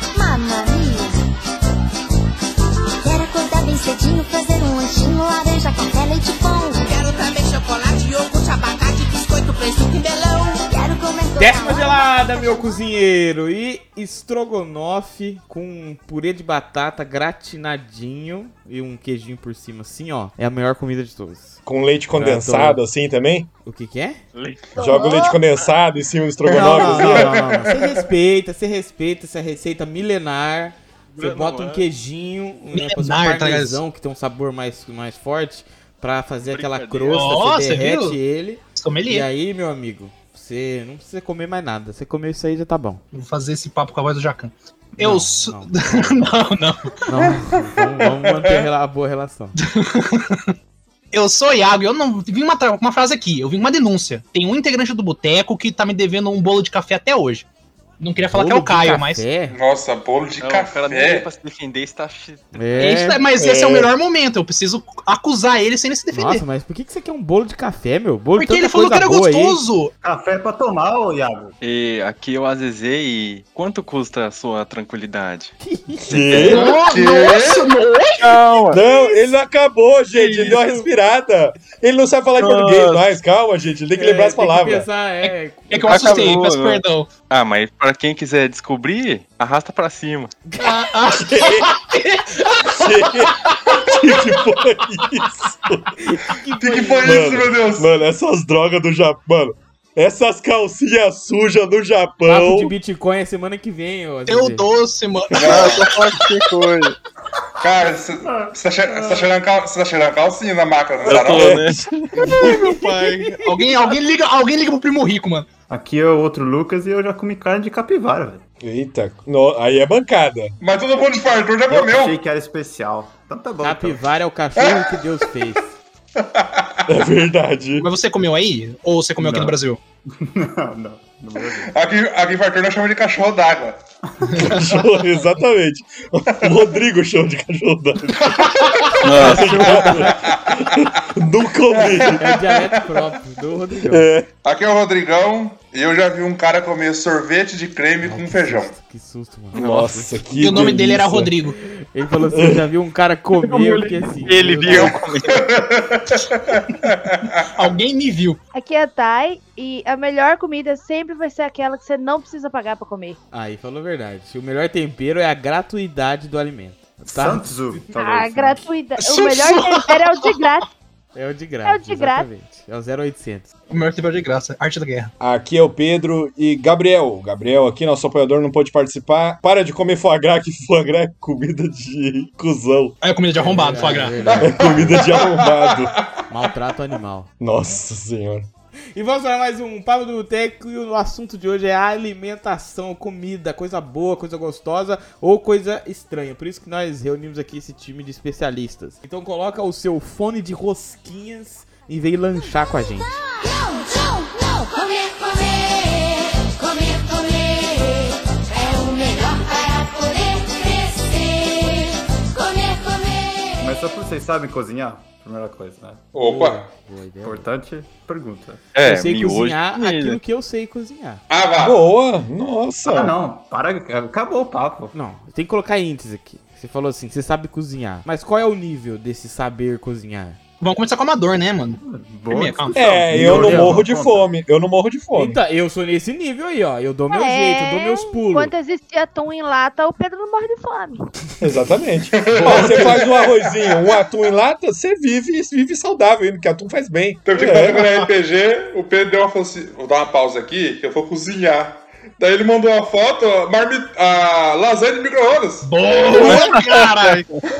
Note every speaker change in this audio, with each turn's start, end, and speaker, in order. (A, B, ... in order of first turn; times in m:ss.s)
0:00.1-0:01.2 A
0:03.0-0:06.9 A
0:06.8-0:10.6 B
0:10.7-0:13.0 A
0:11.4-0:21.6 C
0:21.6-0:23.5 D
0:22.1-0:22.8 C
0:23.6-0:24.2 C
0:24.3-0:25.7 E
0:24.8-0:25.4 F
0:24.8-0:27.4 D
0:26.4-0:28.0 G
0:26.5-0:43.0 C
0:31.1-0:31.8 E
0:32.7-0:33.8 H
0:36.4-0:37.4 E
0:37.1-0:38.2 H
0:38.7-0:39.3 H
0:43.1-0:46.9 H
0:45.0-0:46.2 C
0:47.0-0:49.6 C
0:47.1-0:48.7 G
0:49.6-0:50.5 H
0:51.1-0:57.4 H
0:58.0-0:59.2 H
0:58.3-0:59.6 C
0:59.5-1:01.3 G
1:00.4-1:03.0 E
1:02.5-1:03.2 C
1:02.8-1:06.4 H
1:03.4-1:03.9 D
1:06.1-1:09.6 C
1:08.4-1:09.9 H
1:10.0-1:11.6 I
1:11.6-1:16.8 E
1:15.6-1:16.0 C
1:16.0-1:16.8 D
1:16.4-1:18.4 H
1:16.8-1:17.7 G
1:18.2-1:18.8 E
1:18.7-1:24.9 D
1:20.1-1:20.8 E
1:22.4-1:23.1 E
1:23.9-1:26.1 C
1:25.2-1:27.1 H
1:25.9-1:30.3 E
1:30.5-1:30.8 C
1:30.6-1:35.1 H
1:31.1-1:31.8 D
1:32.6-1:35.9 D
1:36.0-1:37.3 C
1:36.6-1:37.9 G
1:37.0-1:42.7 D
1:42.2-1:44.7 C
1:44.3-1:46.5 H
1:45.3-1:45.9 G
1:45.4-1:47.0 E
1:47.6-1:51.6 G
1:48.2-1:49.3 I
1:51.0-1:53.4 E
1:51.2-1:52.4 D
1:52.2-1:53.6 C
1:53.4-1:55.5 H
1:55.7-1:58.4 I
1:58.6-2:00.5 D
2:00.6-2:02.2 G
2:01.7-2:04.1 I
2:03.6-2:05.7 C
2:04.6-2:05.0 G
2:06.2-2:06.9 G
2:06.9-2:07.9 D
2:07.8-2:09.8 H
2:09.2-2:11.7 I
2:11.6-2:13.8 G
2:14.2-2:14.7 I
2:14.3-2:22.2 D
2:18.2-2:20.7 G
2:19.0-2:20.3 C
2:19.0-2:19.7 E
2:21.7-2:23.0 G
2:22.2-2:24.0 C
2:23.9-2:24.3 D
2:24.4-2:28.7 G
2:28.0-2:30.8 C
2:29.5-2:30.0 E
2:29.5-2:31.4 D
2:30.4-2:31.6 H
2:31.9-2:35.0 C
2:32.3-2:32.6 D
2:33.4-2:35.4 E
2:35.3-2:37.5 G
2:37.5-2:38.4 H
2:38.5-2:43.2 F
2:43.3-2:47.5 C
2:47.0-2:48.6 I
2:47.9-2:50.7 F
2:49.0-2:50.4 H
2:51.1-2:53.4 C
2:51.6-2:52.3 F
2:53.7-2:55.1 H
2:55.2-3:03.0 D
3:03.0-3:04.2 H
3:03.4-3:04.8 C
3:03.9-3:06.1 G
3:04.4-3:05.9 D
3:06.3-3:07.3 C
3:07.4-3:08.5 D
3:08.9-3:23.2 C
3:23.1-3:33.8 A
3:33.6-3:36.1 I
3:36.1-3:36.7 G
3:36.2-3:37.5 C
3:37.2-3:38.6 I
3:38.7-3:40.2 E
3:38.8-3:41.2 C
3:41.3-3:41.8 G
3:41.6-3:43.1 D
3:42.8-3:44.9 I
3:44.9-3:50.4 C
3:50.6-3:52.8 H
3:51.8-3:54.3 I
3:52.7-3:55.4 D
3:53.3-3:53.8 C
3:55.1-3:58.5 C
3:57.1-4:01.0 F
4:01.4-4:07.8 D
4:02.1-4:04.0 G
4:02.3-4:03.2 H
4:07.2-4:17.2 G
4:07.6-4:08.1 H
4:15.6-4:17.3 H